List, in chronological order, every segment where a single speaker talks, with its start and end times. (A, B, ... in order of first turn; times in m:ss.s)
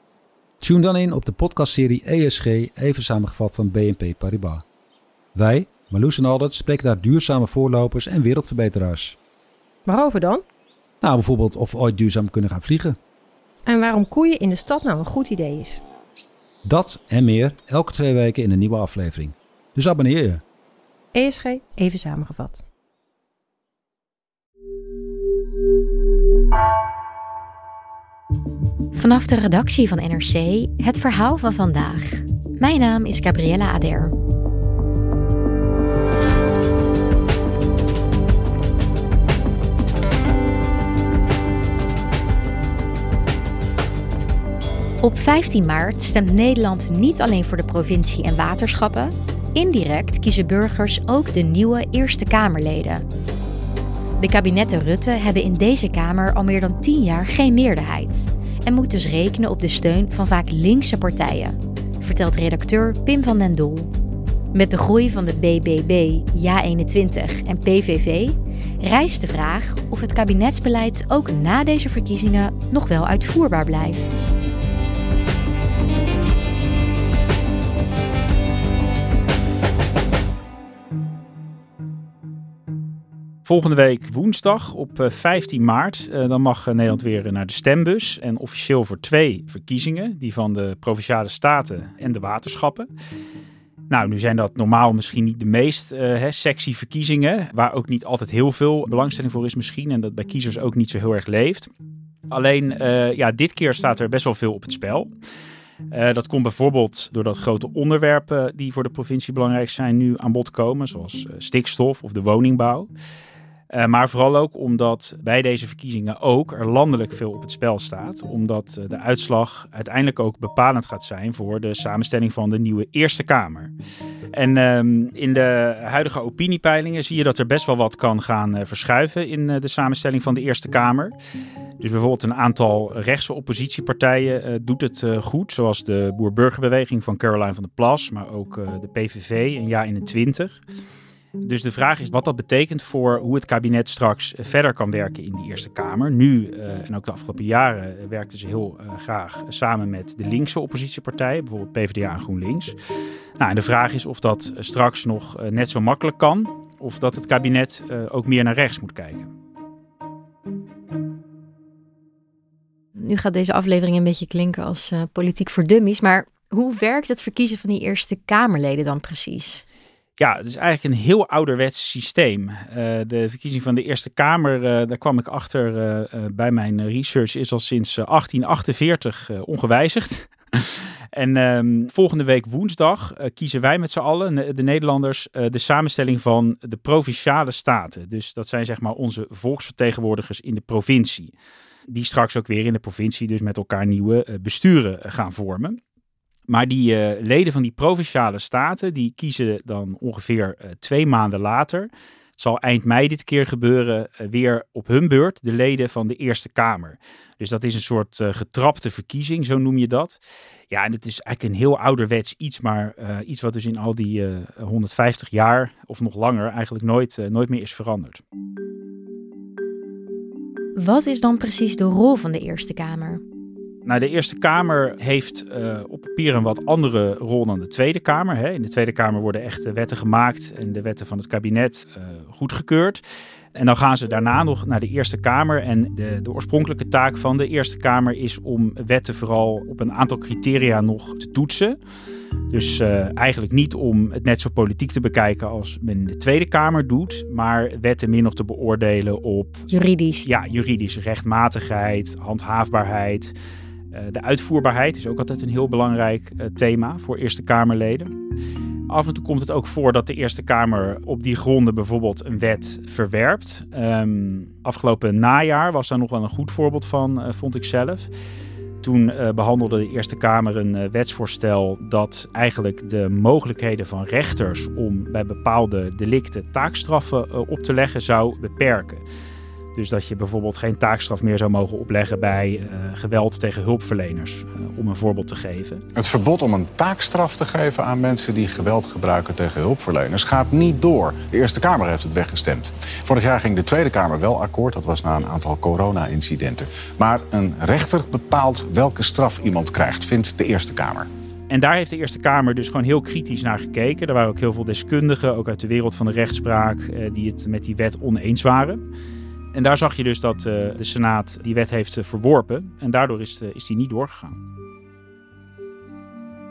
0:00.6-0:04.6 A
0:05.4-0:09.2 A
0:09.9-0:10.4 B
0:11.0-0:13.0 A
0:13.7-0:15.8 B
0:16.6-0:20.4 A
0:21.1-0:22.6 B
0:29.0-0:34.1 C
0:45.0-0:53.1 C
0:54.2-1:03.9 C
1:04.5-1:14.2 C
1:23.5-1:32.9 D
1:33.9-1:41.7 D
1:42.3-1:45.1 D
1:45.9-1:52.9 D
1:53.7-2:03.7 D
2:04.3-2:11.2 D
2:11.8-2:20.6 D
2:21.4-2:32.8 D
2:33.4-2:39.3 D
2:43.0-2:49.6 C
2:50.2-3:11.4 D
3:11.9-3:15.8 D
3:16.5-3:30.2 D
3:30.7-3:38.2 D
3:40.8-3:43.2 C
3:43.9-3:53.0 D
3:53.6-4:01.8 D
4:02.5-4:09.7 D
4:09.7-4:10.3 C
4:10.2-4:13.4 D
4:13.9-4:18.1 D
4:18.9-4:28.1 D
4:28.8-4:39.0 D
4:39.8-4:45.8 D
4:46.0-5:01.1 E
5:01.5-5:08.8 D
5:09.5-5:14.4 D